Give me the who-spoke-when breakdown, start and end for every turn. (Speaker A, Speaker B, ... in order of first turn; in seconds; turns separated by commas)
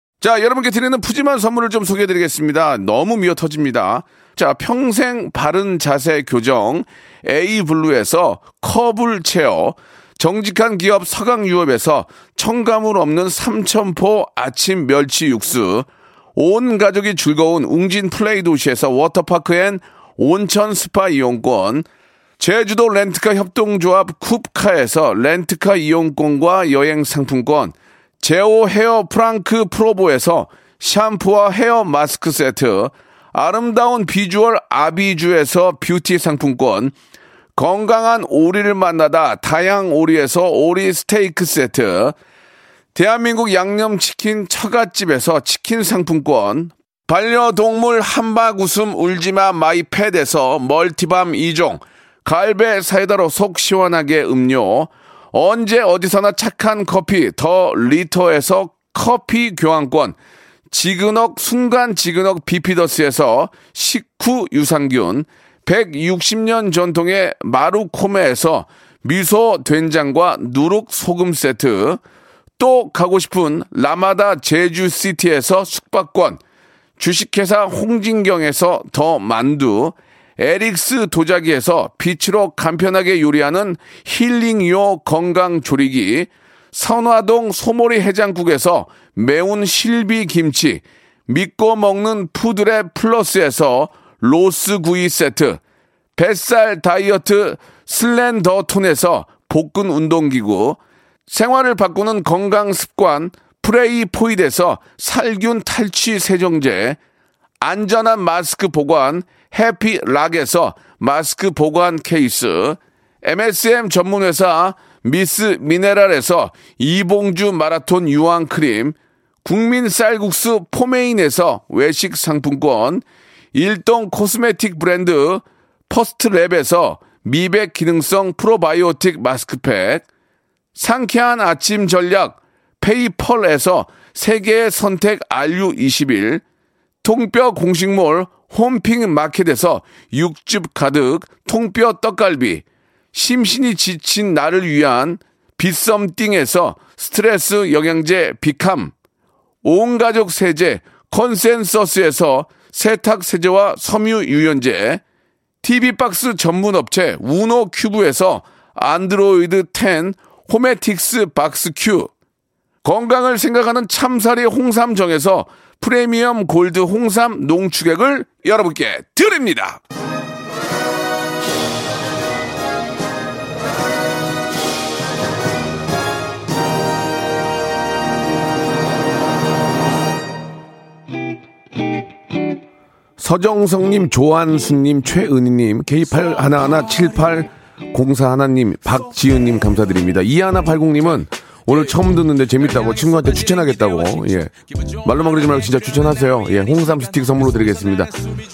Speaker A: 0.2-21.9, Speaker A: 22.4-36.9, Speaker A: 37.5-42.1, Speaker A: 42.9-60.2, Speaker A: 60.7-72.0, Speaker A: 72.6-76.4, Speaker A: 77.0-95.6, Speaker A: 96.2-107.0, Speaker A: 107.6-130.0, Speaker A: 130.8-136.4, Speaker A: 137.0-148.9, Speaker A: 149.6-155.0, Speaker A: 155.6-162.1, Speaker A: 162.8-169.8, Speaker A: 183.2-198.2